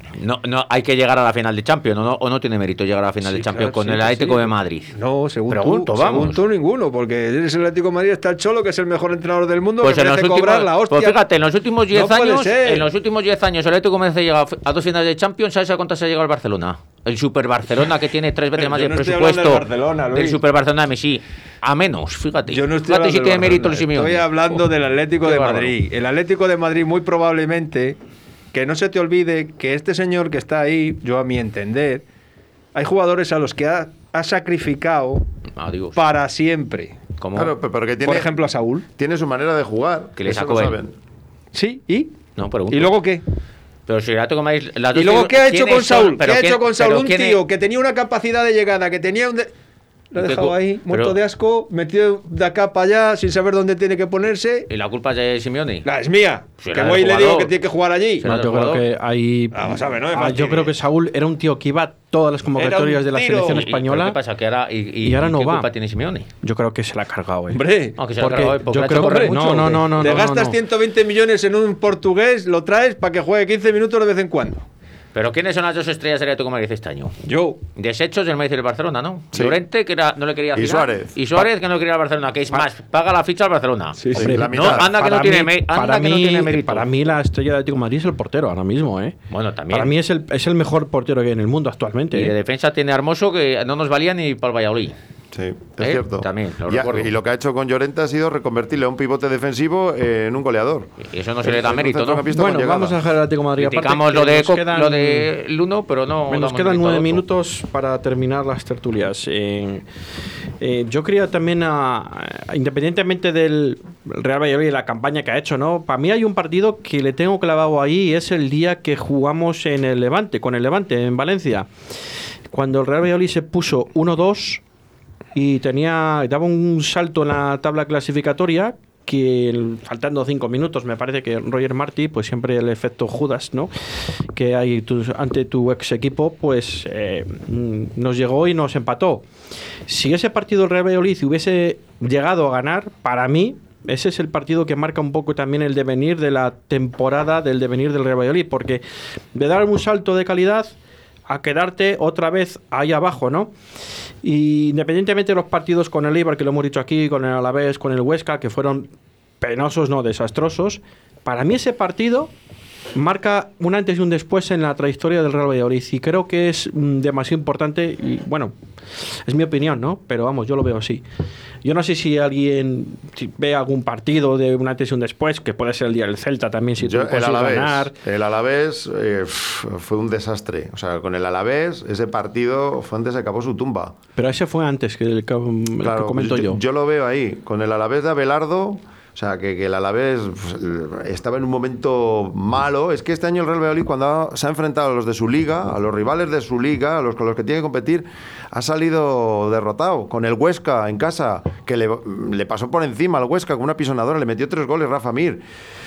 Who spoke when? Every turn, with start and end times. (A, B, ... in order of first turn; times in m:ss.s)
0:00.2-0:04.9 A
0:03.2-0:11.2 B
0:05.5-0:06.4 A
0:09.8-0:24.7 A
0:11.9-0:12.9 B
0:18.6-0:20.4 B
0:22.5-0:28.0 B
0:25.2-0:25.8 A
0:28.5-0:32.0 B
0:32.7-0:35.2 B
0:35.6-0:36.0 A
0:36.0-0:37.0 B
0:37.2-0:37.5 A
0:37.3-0:38.3 C
0:38.0-0:38.9 B
0:39.0-0:40.9 C
0:40.2-0:40.8 A
0:41.5-0:42.2 B
0:42.4-0:43.0 A
0:42.7-0:43.2 B
0:43.9-0:47.4 A
0:44.9-0:49.5 B
0:50.1-0:54.7 B
0:50.2-0:51.2 A
0:54.7-0:55.9 A
0:55.8-0:58.3 B
0:56.6-0:57.5 A
0:58.2-0:58.8 A
0:58.2-1:04.2 D
0:59.5-1:00.8 B
1:02.6-1:03.6 B
1:03.5-1:06.3 A
1:05.0-1:05.7 D
1:06.4-1:07.6 D
1:07.5-1:08.1 B
1:08.0-1:10.2 A
1:08.2-1:10.6 D
1:08.9-1:14.6 B
1:15.1-1:17.2 A
1:17.3-1:17.6 B
1:17.8-1:26.9 A
1:20.6-1:21.4 C
1:24.0-1:24.4 B
1:24.1-1:24.9 C
1:24.2-1:29.2 D
1:29.3-1:29.9 A
1:29.7-1:32.3 D
1:32.1-1:35.0 A
1:35.3-1:43.0 C
1:35.8-1:37.1 A
1:41.0-1:42.3 A
1:42.3-1:45.3 D
1:43.6-1:47.2 A
1:46.3-1:49.9 D
1:50.6-2:01.7 D
2:02.5-2:04.6 D
2:05.4-2:13.7 D
2:14.3-2:19.2 D
2:19.9-2:28.8 D
2:29.3-2:30.7 D
2:31.3-2:33.5 D
2:34.2-2:38.9 D
2:39.4-2:42.3 D
2:43.0-2:51.0 D
2:51.6-2:57.9 D
2:56.8-3:04.0 C
3:04.2-3:06.6 D
3:05.8-3:25.4 C